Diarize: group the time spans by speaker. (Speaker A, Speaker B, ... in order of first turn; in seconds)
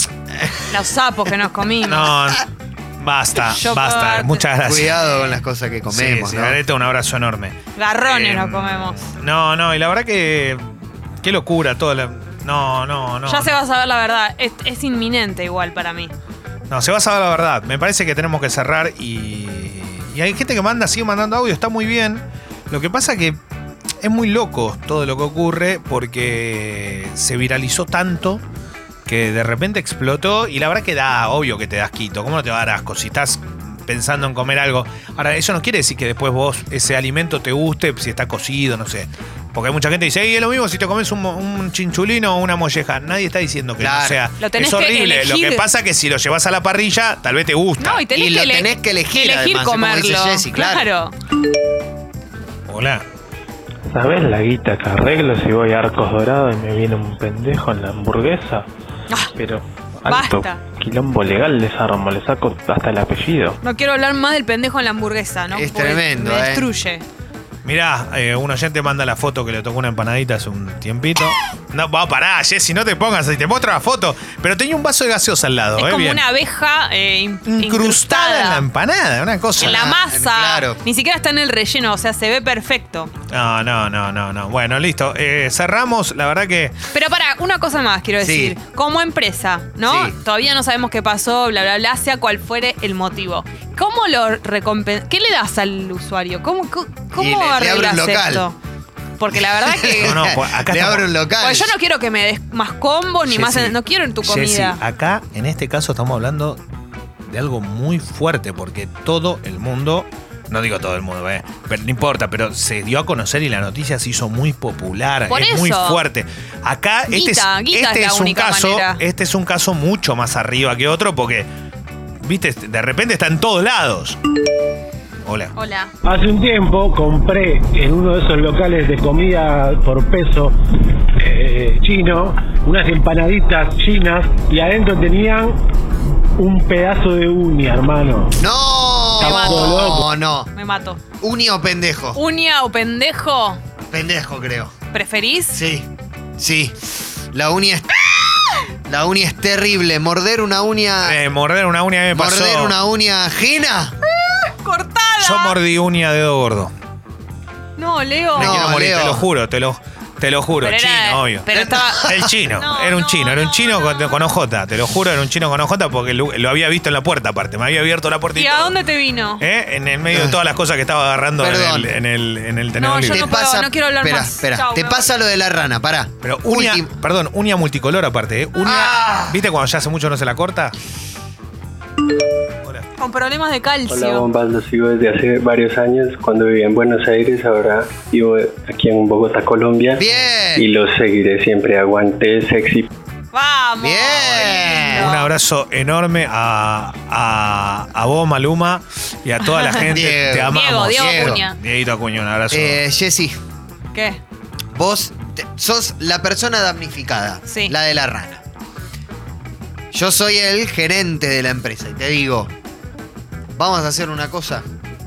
Speaker A: 0.7-2.1, 3.5-4.4, 5.0-5.3, 7.8-9.1, 13.2-16.1, 44.4-45.6, 47.8-51.1, 60.1-60.6, 63.6-67.0, 75.8-78.6, 79.6-83.1, 86.9-98.5, 99.2-100.2, 101.4-104.8, 115.3-116.0, 117.1-119.0, 125.5-125.9, 139.2-141.0, 142.1-143.6, 144.9-145.6, 154.2-155.6, 157.8-158.6, 160.6-164.2, 168.3-169.4, 172.8-175.1, 183.0-184.2, 193.3-195.2, 199.5-199.8, 200.5-201.6, 203.9-204.2, 207.5-207.7
Speaker B: 1.8-2.5, 3.0-5.0, 5.9-13.6, 16.7-23.4, 24.0-28.4, 29.1-48.0, 52.7-53.0, 67.6-76.2, 77.5-79.9, 83.3-86.7, 99.9-101.0, 103.3-103.7, 104.2-106.6, 107.2-121.5, 122.2-124.2, 125.2-125.5, 151.0-152.7, 155.2-156.7, 158.3-161.5, 162.0-168.8, 169.4-173.3, 176.2-180.8, 194.9-202.8
Speaker C: 4.6-6.6, 43.8-44.2, 48.1-50.9, 65.5-66.7, 79.6-80.8, 88.2-88.6, 89.8-90.2, 97.1-98.5, 99.3-101.7, 138.4-140.5, 141.2-142.2, 143.9-144.7, 145.5-146.8, 147.3-151.2, 152.1-154.0, 158.3-159.2, 161.5-162.3, 170.1-170.4, 171.4-171.9, 173.1-176.9, 178.6-179.4, 190.0-190.6, 193.8-195.1, 199.9-201.4, 202.5-203.3, 204.7-208.4, 209.9-212.5, 213.6-214.6
Speaker D: 53.9-58.6, 59.3-63.6
Speaker E: 126.0-130.6, 131.2-135.6, 136.4-138.4, 139.2-140.1
Speaker F: 183.9-190.0, 190.6-192.9